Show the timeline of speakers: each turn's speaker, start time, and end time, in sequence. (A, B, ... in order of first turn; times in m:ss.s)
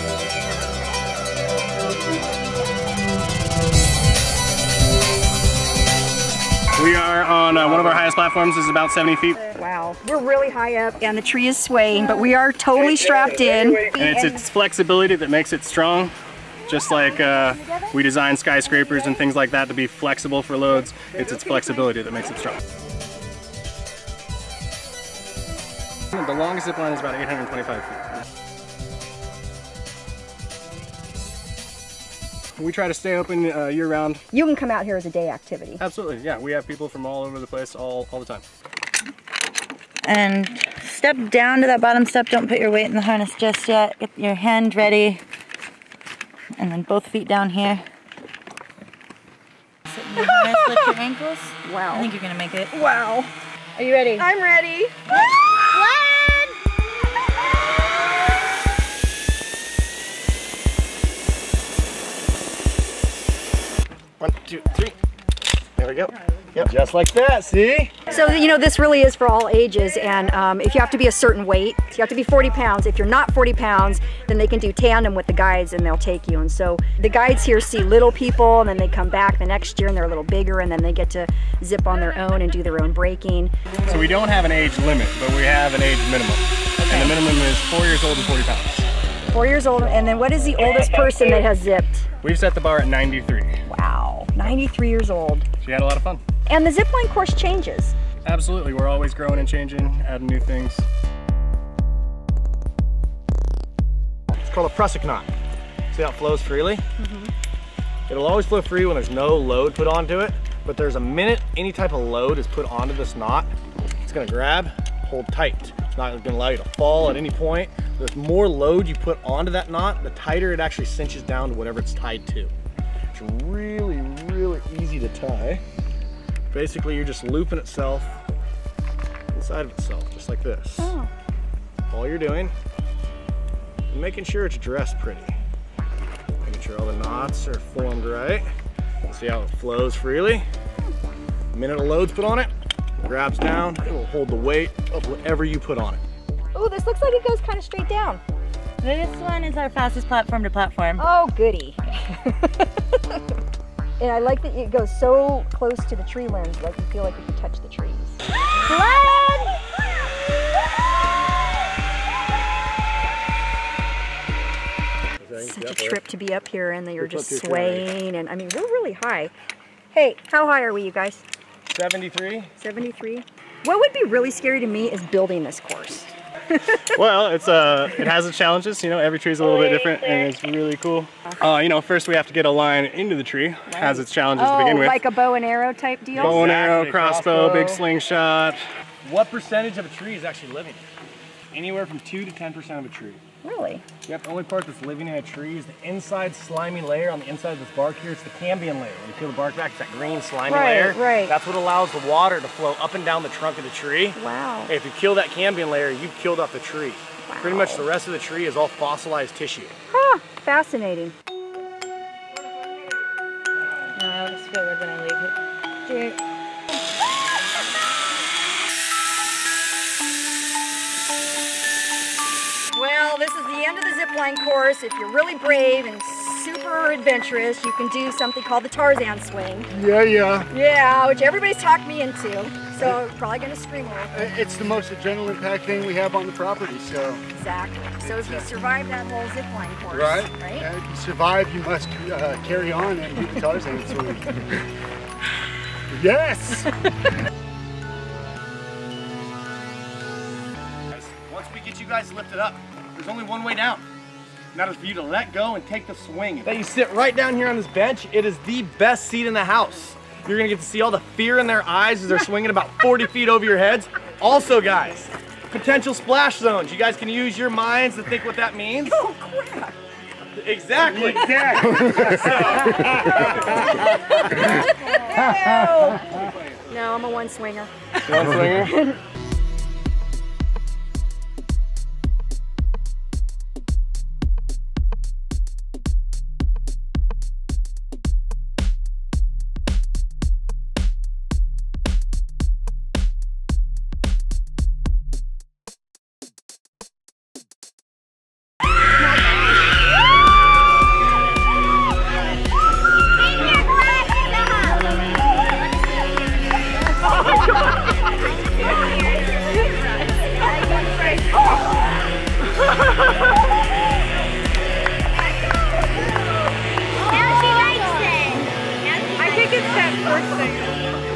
0:06.8-0:09.5 A
0:07.6-0:08.0 B
0:09.5-0:14.4 C
0:13.9-0:16.1 A
0:16.7-0:22.6 A
0:26.1-0:28.0 A
0:32.6-0:34.2 A
0:34.3-0:35.8 C
0:35.8-0:38.4 A
0:40.0-0:45.2 D
0:46.6-0:47.8 D
0:49.9-0:52.7 D
0:50.2-0:50.9 C
0:51.6-0:52.1 C
0:52.7-0:53.3 C
0:53.8-0:54.2 D
0:54.1-0:54.9 C
1:04.2-1:04.9 B
1:05.8-1:07.9 B
1:08.1-1:23.5 C
1:23.9-1:28.8 A
1:26.9-1:27.1 C
1:29.3-1:32.1 C
1:32.2-1:33.5 A
1:33.7-1:35.4 C
1:35.6-1:36.2 A
1:36.5-1:37.9 C
1:38.2-1:40.8 A
1:44.5-1:45.3 B
1:45.9-1:46.8 B
1:47.0-1:47.3 C
1:48.1-1:53.5 B
1:54.0-2:02.5 B
2:03.1-2:05.6 B
2:06.5-2:08.2 B
2:09.3-2:10.9 B
2:10.8-2:11.1 C
2:11.9-2:12.5 B
2:13.9-2:15.3 B
2:16.4-2:18.4 B
2:19.0-2:20.4 B
2:21.5-2:22.5 B
2:23.0-2:26.0 B
2:26.5-2:28.2 C
2:28.8-2:31.0 D
2:31.0-2:33.0 C
2:34.0-2:38.2 C
2:38.7-2:39.5 D
2:45.2-2:46.0 B
2:45.4-2:49.3 C
2:47.0-2:47.9 B
2:49.9-2:51.2 C
2:51.7-2:52.5 B
2:52.6-2:56.1 C
2:56.8-3:05.0 A
3:03.7-3:06.4 C
3:06.1-3:07.8 B
3:06.2-3:08.6 A
3:09.0-3:10.8 B
3:11.5-3:13.2 B
3:13.4-3:13.8 C
3:14.0-3:29.7 B
3:20.5-3:21.3 C
3:24.1-3:24.7 C
3:27.2-3:27.9 C
3:29.9-3:31.1 C
3:34.0-3:35.3 D
3:35.9-3:36.2 D
3:42.7-3:49.7 C
3:49.7-3:50.5 E
3:50.5-3:54.3 C
3:54.1-3:57.2 E
3:57.3-4:00.7 C
3:58.0-3:58.4 E
3:59.9-4:04.4 E
4:05.9-4:06.7 E
4:10.9-4:13.8 B
4:14.5-4:29.0 B
4:28.8-4:29.8 C
4:30.4-4:34.2 B
4:30.9-4:32.9 E
4:33.4-4:39.0 C
4:38.1-4:38.7 A
4:59.2-4:59.5 C
5:03.4-5:04.8 D
5:08.4-5:09.7 D
5:09.4-5:09.8 C
5:10.4-5:11.7 C
5:10.4-5:11.6 D
5:17.0-5:20.3 D
5:17.1-5:18.1 C
5:19.2-5:20.8 C